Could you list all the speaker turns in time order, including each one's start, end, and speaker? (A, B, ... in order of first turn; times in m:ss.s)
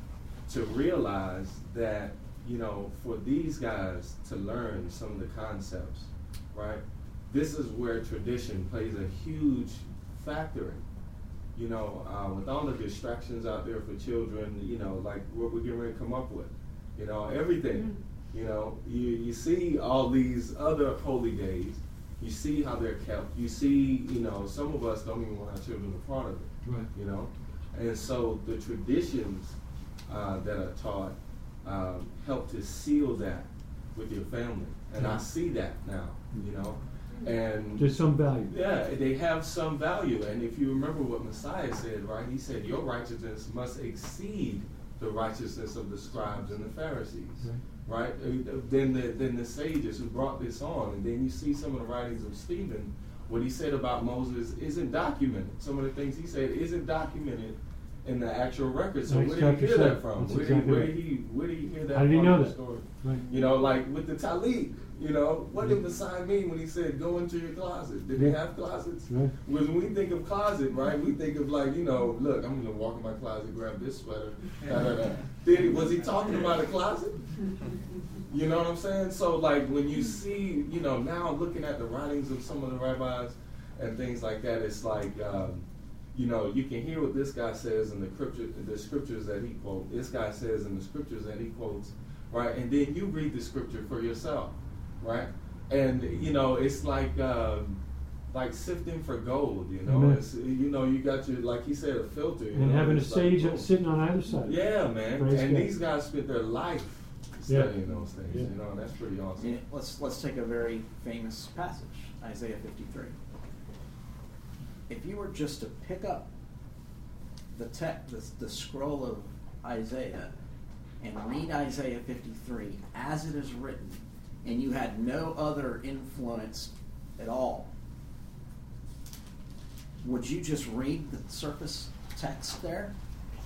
0:00.5-0:10.8 A
0:11.6-0:29.6 A
0:26.6-0:26.9 B
0:30.1-0:37.9 A
0:35.0-0:35.2 B
0:37.8-0:38.6 B
0:38.5-1:17.2 A
0:59.1-1:01.0 B
1:01.9-1:03.3 B
1:09.1-1:09.3 B
1:18.3-1:43.7 A
1:39.8-1:40.2 B
1:42.5-1:45.7 B
1:44.4-1:49.6 A
1:47.5-1:47.8 B
1:48.3-1:48.5 B
1:49.4-1:53.2 C
1:54.9-1:56.3 C
1:57.5-2:00.3 C
2:01.0-2:07.7 C
2:10.0-2:13.0 C